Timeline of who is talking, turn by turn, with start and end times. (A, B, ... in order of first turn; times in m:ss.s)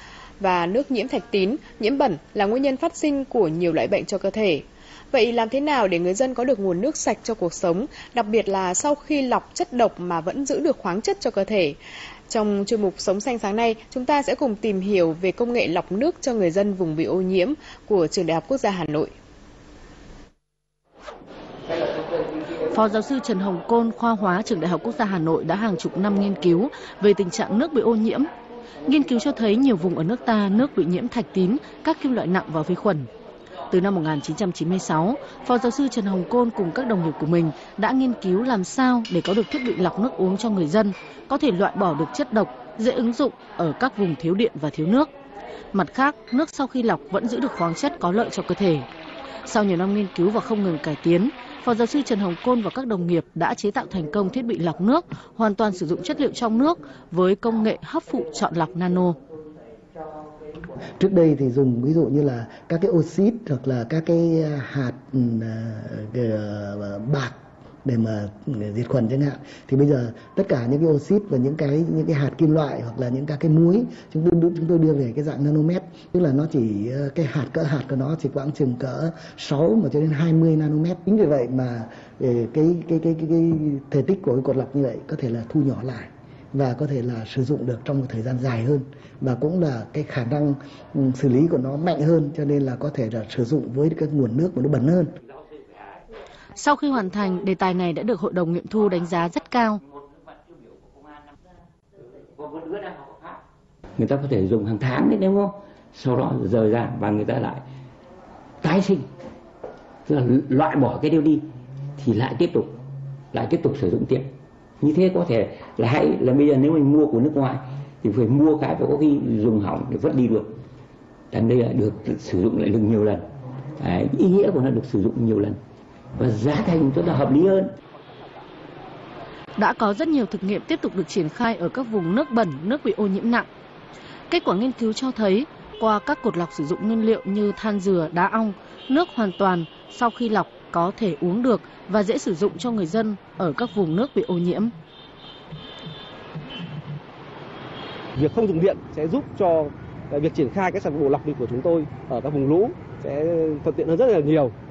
0:00.4-0:11.8 A
0:12.3-0:19.1 A
0:22.6-0:28.3 B
0:28.8-0:33.1 B
0:33.7-0:45.1 B
0:45.7-0:48.8 B
0:49.4-0:59.2 B
1:01.0-1:07.3 C
1:07.8-1:35.1 C
1:36.6-1:39.8 B
1:39.9-1:41.3 D
1:42.1-1:43.4 D
1:44.0-1:47.6 D
1:48.6-1:49.1 D
1:50.0-1:51.4 D
1:52.0-1:52.7 D
1:53.3-1:54.3 D
1:54.8-2:00.5 D
2:01.3-2:03.2 D
2:03.8-2:05.6 D
2:06.2-2:07.7 D
2:09.6-2:13.5 B
2:14.3-2:24.7 B
2:28.2-2:34.5 E